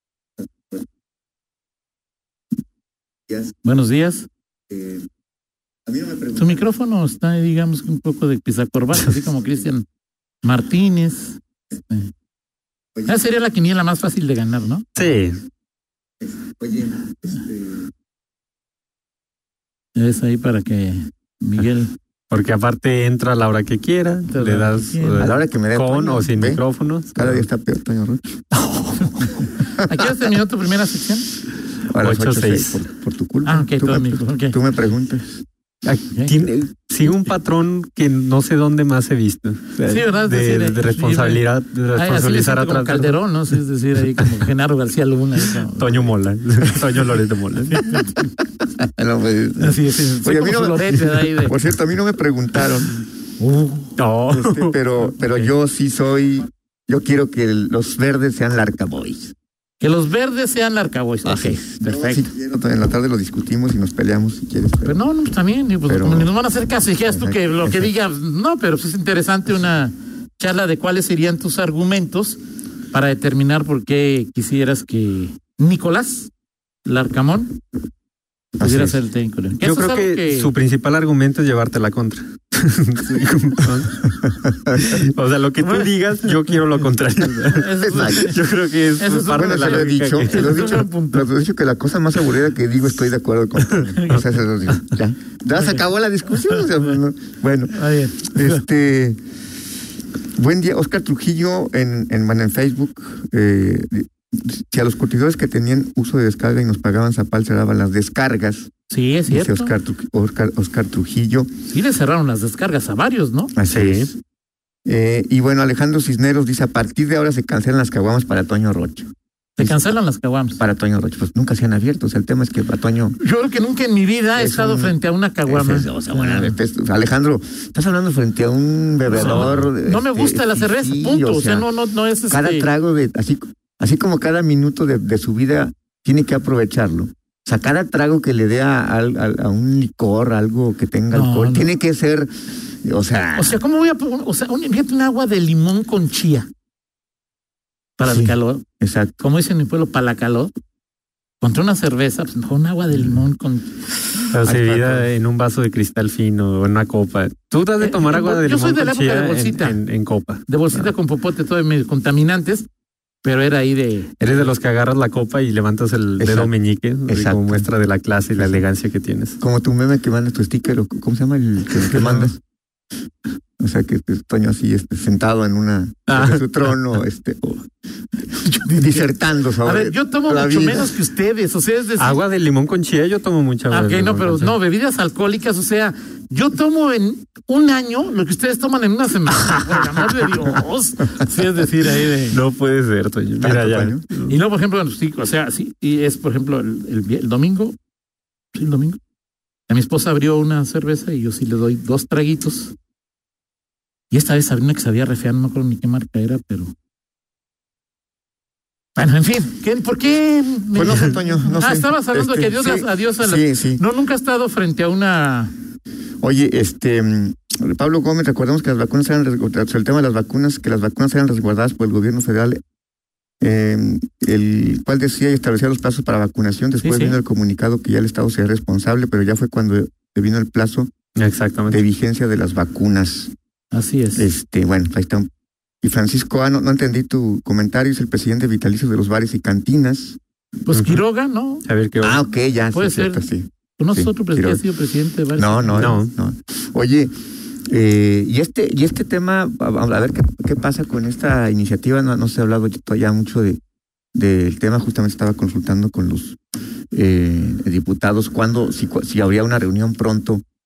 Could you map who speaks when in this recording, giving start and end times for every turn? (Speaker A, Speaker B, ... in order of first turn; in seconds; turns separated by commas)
Speaker A: 0.4-0.8, Speaker A: 3.3-3.5, Speaker B: 3.6-4.3, Speaker A: 4.7-5.1, Speaker A: 5.8-6.6, Speaker B: 6.3-9.8, Speaker B: 10.4-12.1, Speaker B: 13.1-14.8, Speaker C: 14.9-15.4, Speaker A: 16.2-17.9, Speaker B: 19.9-21.9, Speaker C: 22.3-27.3, Speaker B: 24.3-25.3, Speaker A: 25.2-26.6, Speaker A: 27.1-28.4, Speaker B: 28.5-31.3, Speaker A: 29.8-30.1, Speaker A: 31.9-35.4, Speaker C: 32.0-32.8, Speaker B: 33.5-34.5, Speaker C: 35.8-43.2, Speaker B: 36.1-36.4, Speaker B: 39.8-46.1, Speaker C: 45.8-47.9, Speaker B: 47.6-48.3, Speaker A: 48.6-53.0, Speaker B: 49.6-51.5, Speaker B: 53.4-54.0, Speaker C: 54.0-54.8, Speaker A: 54.3-59.3, Speaker B: 55.2-55.5, Speaker B: 59.8-62.2, Speaker A: 61.2-65.0, Speaker B: 64.8-72.4, Speaker A: 65.9-66.3, Speaker A: 67.1-67.9, Speaker B: 72.9-76.3, Speaker B: 76.8-77.6, Speaker A: 78.6-79.0, Speaker B: 78.6-80.5, Speaker C: 79.6-90.8, Speaker A: 84.5-84.8, Speaker B: 87.5-88.3, Speaker A: 87.8-88.3, Speaker B: 89.0-91.3, Speaker A: 89.3-99.2, Speaker B: 97.7-98.6, Speaker A: 100.3-108.7, Speaker B: 108.9-109.7, Speaker A: 109.3-111.5, Speaker B: 111.7-113.5, Speaker A: 113.5-114.2, Speaker C: 113.7-114.1, Speaker A: 114.8-119.8, Speaker B: 119.6-120.6, Speaker A: 120.6-123.2, Speaker B: 123.2-126.5, Speaker A: 124.4-131.7, Speaker B: 129.1-132.7, Speaker C: 129.1-129.7, Speaker A: 132.3-142.3, Speaker B: 141.1-141.7, Speaker A: 142.8-143.6, Speaker B: 143.3-146.5, Speaker B: 148.0-148.6, Speaker A: 148.0-149.1, Speaker B: 149.2-150.5, Speaker B: 151.4-153.8, Speaker C: 154.3-160.9, Speaker A: 154.4-155.1, Speaker B: 157.8-159.8, Speaker B: 160.5-162.7, Speaker B: 163.2-164.5, Speaker C: 164.2-169.4, Speaker A: 166.2-166.5, Speaker A: 167.1-167.7, Speaker A: 168.4-168.6, Speaker A: 169.4-172.4, Speaker C: 171.9-172.3, Speaker A: 173.6-177.7, Speaker C: 176.1-176.8, Speaker B: 178.4-179.1, Speaker A: 178.7-180.9, Speaker B: 179.6-182.2, Speaker C: 182.0-184.5, Speaker B: 183.7-192.4, Speaker C: 192.1-194.3, Speaker A: 193.4-194.0, Speaker B: 194.3-197.8, Speaker B: 198.5-199.0, Speaker B: 199.7-202.7, Speaker B: 204.1-206.7, Speaker B: 208.9-215.5, Speaker A: 210.7-213.8, Speaker A: 216.2-222.6, Speaker A: 223.4-230.9, Speaker B: 226.8-227.2, Speaker C: 231.2-231.8, Speaker A: 231.7-233.3, Speaker B: 233.7-234.2, Speaker A: 234.2-235.3, Speaker A: 235.8-240.2, Speaker B: 240.7-241.6, Speaker C: 240.7-241.0, Speaker C: 241.7-242.2, Speaker A: 242.0-244.6, Speaker B: 242.7-243.2, Speaker B: 243.8-246.0, Speaker A: 245.3-247.1, Speaker C: 245.8-246.1, Speaker A: 247.7-253.6, Speaker A: 254.1-256.4, Speaker A: 256.9-260.4